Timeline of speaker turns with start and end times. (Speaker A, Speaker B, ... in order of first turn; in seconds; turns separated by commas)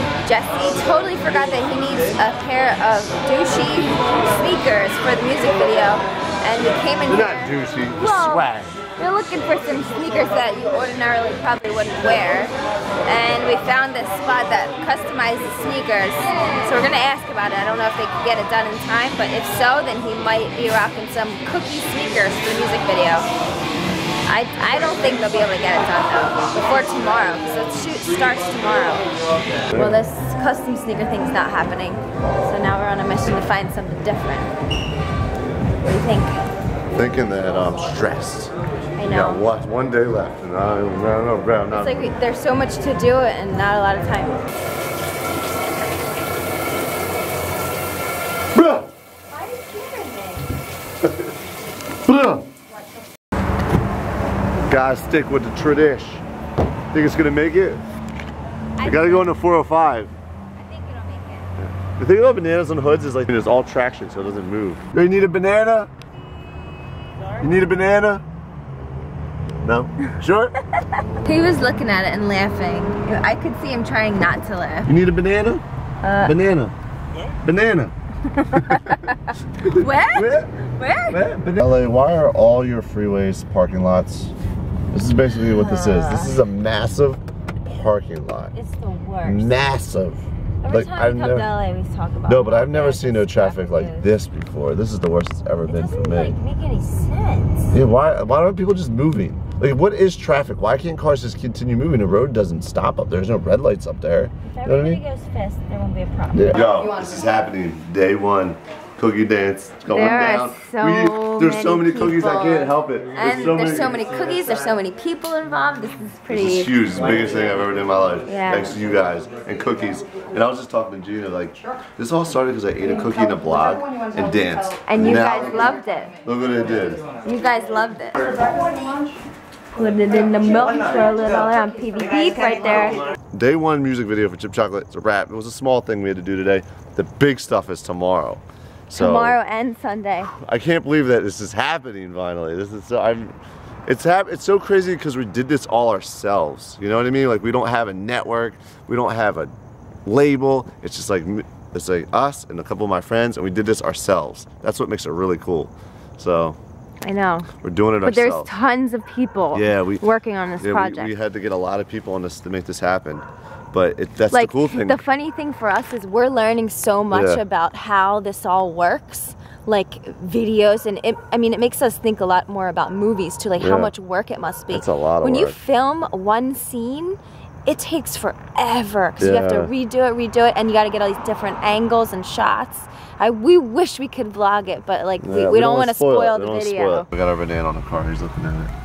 Speaker A: 0.2-23.3, Speaker B: 7.1-8.8, Speaker A: 24.3-29.1, Speaker A: 29.7-34.5, Speaker B: 29.7-30.0, Speaker A: 35.8-36.4, Speaker B: 36.9-42.1, Speaker A: 39.0-39.5, Speaker A: 41.7-44.5, Speaker B: 48.5-48.9, Speaker A: 49.3-50.5, Speaker B: 51.0-51.3, Speaker B: 52.0-52.5, Speaker B: 54.7-56.2, Speaker B: 56.9-57.8, Speaker A: 58.8-59.5, Speaker B: 58.8-60.1, Speaker A: 60.6-61.5, Speaker B: 61.6-65.9, Speaker B: 67.4-68.2, Speaker B: 69.6-70.6, Speaker A: 70.9-74.9, Speaker B: 74.9-75.6, Speaker A: 76.0-76.4, Speaker B: 76.2-76.8, Speaker B: 77.4-77.9, Speaker A: 78.3-81.2, Speaker B: 78.5-79.0, Speaker B: 79.6-80.5, Speaker B: 81.1-84.3, Speaker B: 84.9-88.5, Speaker A: 85.5-86.4, Speaker A: 88.5-89.6, Speaker B: 89.2-91.5, Speaker A: 90.6-94.1, Speaker B: 92.3-96.3, Speaker A: 95.7-97.8, Speaker B: 97.7-105.0, Speaker A: 104.4-106.6, Speaker B: 106.3-114.1, Speaker A: 109.9-117.3, Speaker B: 116.3-127.1, Speaker A: 118.3-118.7, Speaker A: 124.9-126.2, Speaker A: 127.2-128.7, Speaker A: 129.8-133.0, Speaker B: 133.3-139.4, Speaker A: 138.9-140.3, Speaker B: 140.2-149.5, Speaker B: 150.1-156.6, Speaker A: 157.0-157.5, Speaker B: 157.6-158.5, Speaker A: 158.0-161.2, Speaker B: 159.5-160.1, Speaker B: 160.6-165.0, Speaker A: 164.3-187.1, Speaker B: 167.1-167.4, Speaker B: 173.6-173.9, Speaker B: 174.7-175.6, Speaker B: 179.2-179.7, Speaker B: 185.2-188.7